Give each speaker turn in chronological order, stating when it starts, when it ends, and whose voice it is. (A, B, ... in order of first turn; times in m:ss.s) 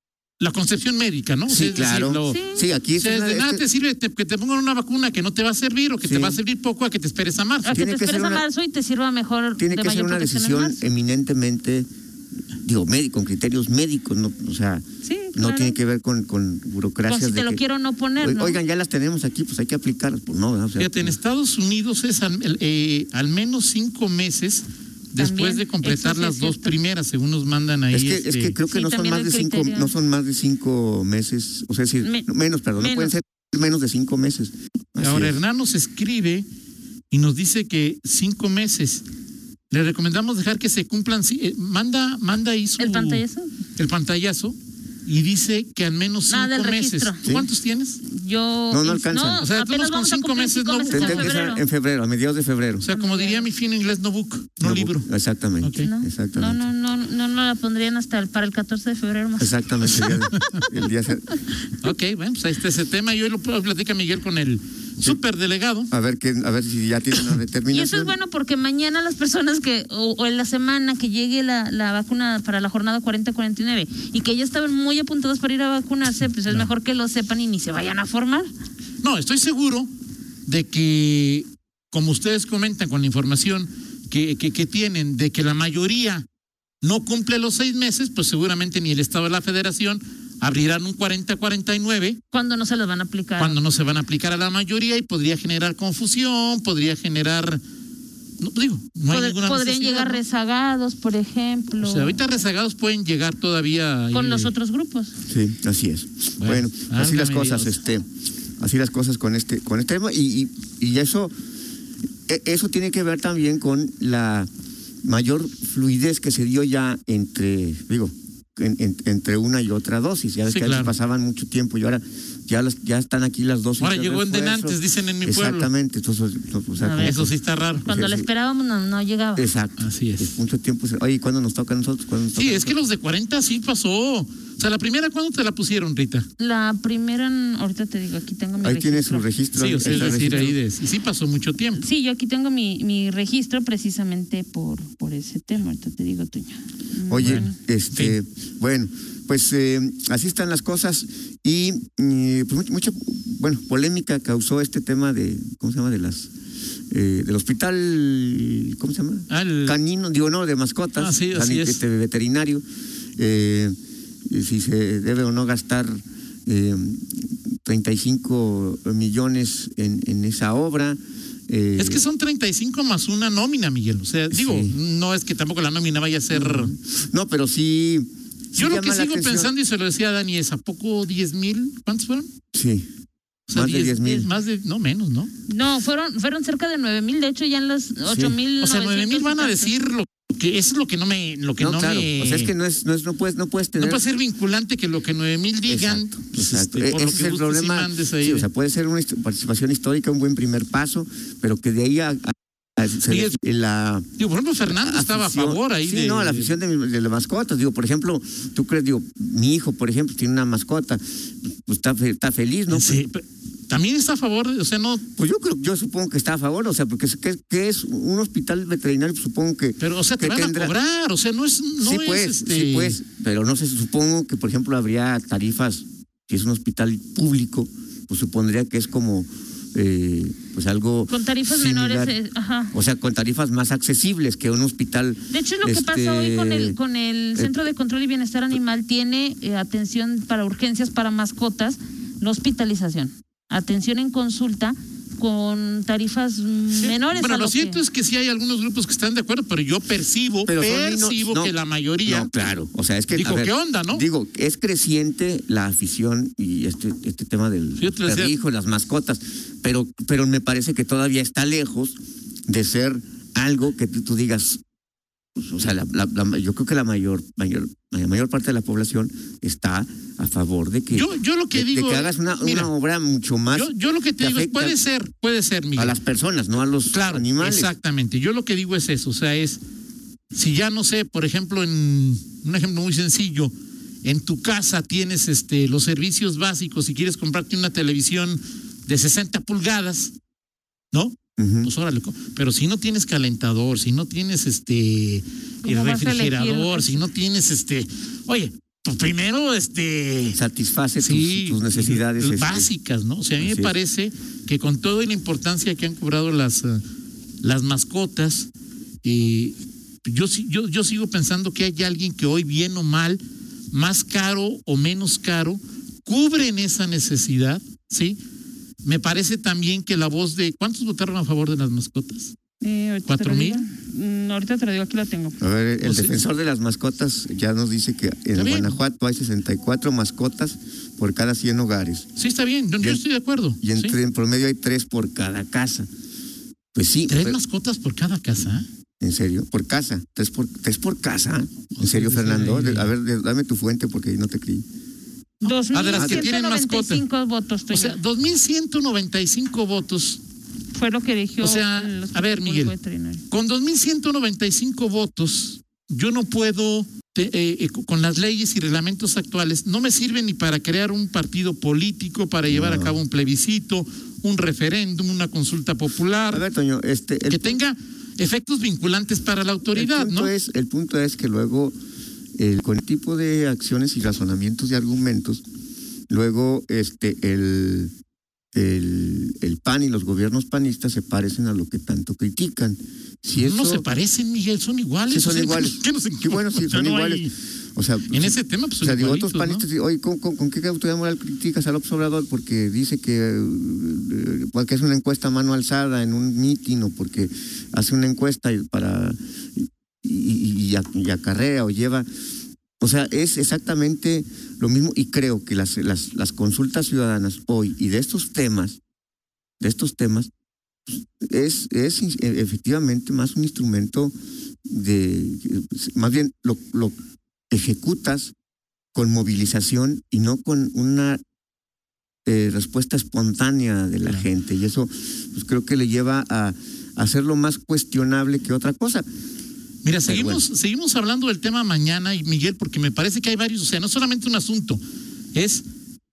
0:00.4-0:02.4 A
0:01.5-0:03.6 B
0:02.3-0:02.7 C
0:03.0-0:07.8 A
0:06.0-0:06.4 B
0:07.6-0:10.9 C
0:07.7-0:08.4 B
0:09.6-0:11.9 B
0:12.6-0:17.6 B
0:15.0-0:15.8 C
0:17.1-0:18.6 C
0:18.2-0:21.2 B
0:20.8-0:28.6 A
0:25.2-0:26.8 C
0:27.9-0:35.4 B
0:28.7-0:30.0 C
0:32.0-0:33.1 C
0:35.0-0:36.5 A
0:37.1-0:39.0 A
0:39.7-0:43.2 A
0:42.8-0:43.5 C
0:43.8-0:48.0 A
0:46.3-0:47.2 C
0:47.2-0:47.5 B
0:48.0-0:51.6 C
0:48.7-0:49.5 B
0:49.4-0:51.6 A
0:50.9-0:52.9 B
0:52.8-0:55.1 A
0:52.9-0:53.5 C
0:54.6-0:56.6 B
0:55.6-0:55.9 A
0:55.8-0:59.6 C
0:59.4-1:01.4 B
0:59.9-1:00.6 A
1:01.8-1:05.9 A
1:05.9-1:08.1 B
1:07.7-1:18.5 C
1:19.0-1:19.9 A
1:20.5-1:26.3 A
1:26.8-1:32.2 A
1:32.3-1:33.6 C
1:33.4-1:37.6 A
1:38.4-1:40.2 A
1:39.1-1:42.2 C
1:41.8-1:44.5 A
1:44.1-1:45.2 C
1:45.3-1:48.0 B
1:46.4-1:47.8 A
1:48.6-1:51.3 B
1:52.3-1:54.5 B
1:55.0-2:07.3 B
2:00.5-2:00.9 A
2:03.8-2:05.7 A
2:06.8-2:07.2 C
2:07.0-2:07.9 A
2:07.8-2:09.5 C
2:07.8-2:08.3 B
2:09.4-2:12.8 B
2:09.8-2:10.4 A
2:12.4-2:16.3 A
2:16.4-2:19.3 C
2:18.6-2:20.6 B
2:19.6-2:21.8 A
2:19.9-2:20.2 C
2:21.8-2:27.5 C
2:27.1-2:36.3 B
2:27.2-2:28.2 A
2:36.9-2:42.6 B
2:39.3-2:39.8 A
2:41.0-2:41.8 A
2:43.2-2:43.8 B
2:44.3-2:52.0 B
2:51.8-2:56.7 A
2:54.3-2:54.8 B
2:56.3-2:59.5 B
2:58.6-3:02.3 A
3:02.5-3:02.9 B
3:03.5-3:05.3 A
3:03.5-3:04.3 B
3:05.5-3:09.7 C
3:08.1-3:08.4 B
3:08.6-3:12.5 A
3:11.6-3:14.0 B
3:13.8-3:18.5 A
3:15.7-3:24.1 B
3:23.1-3:23.4 A
3:24.2-3:26.5 A
3:24.7-3:33.0 B
3:32.7-3:35.0 A
3:35.1-3:40.8 B
3:39.8-3:43.0 A
3:41.8-3:52.2 B
3:51.1-3:52.7 C
3:52.7-3:56.8 B
3:55.3-4:07.8 C
4:06.7-4:12.3 A
4:10.5-4:11.5 B
4:12.0-4:24.6 B
4:13.1-4:14.0 A
4:17.8-4:18.3 A
4:25.4-4:34.8 B
4:30.9-4:32.7 A
4:33.5-4:36.0 A
4:35.8-4:37.7 B
4:36.9-4:39.6 A
4:40.3-4:43.5 A
4:44.0-4:50.1 A
4:50.9-5:00.4 A
4:51.4-4:51.7 B
4:55.6-4:57.0 C
5:00.3-5:02.7 B
5:01.0-5:06.8 A
5:03.4-5:03.7 B
5:07.4-5:08.5 A
5:09.0-5:18.2 A
5:18.8-5:22.4 A
5:22.6-5:25.4 C
5:23.1-5:23.6 A
5:25.4-5:32.1 B
5:25.8-5:26.2 A
5:28.4-5:28.8 A
5:32.2-5:34.0 A
5:33.6-5:35.9 B
5:36.7-5:37.4 B
5:37.1-5:38.7 A
5:39.0-5:44.6 B
5:41.8-5:42.9 A
5:45.4-5:47.0 A
5:45.4-5:48.0 C
5:45.9-5:46.3 B
5:47.7-5:50.2 A
5:50.7-5:53.2 C
5:51.4-5:52.7 A
5:53.3-6:06.4 A
6:02.5-6:03.0 B
6:06.3-6:07.6 B
6:07.3-6:10.3 A
6:09.7-6:11.8 B
6:12.4-6:15.4 B
6:16.1-6:17.9 B
6:18.5-6:23.8 B
6:23.4-6:27.3 A
6:25.1-6:42.1 B
6:28.1-6:29.6 A
6:42.8-6:48.8 B
6:49.6-6:50.3 B
6:50.9-6:54.1 B
6:54.7-6:57.0 B
6:57.5-6:58.3 B
6:58.9-7:01.2 B
7:02.3-7:09.1 B
7:09.8-7:14.8 A
7:10.1-7:10.4 B
7:15.3-7:15.6 A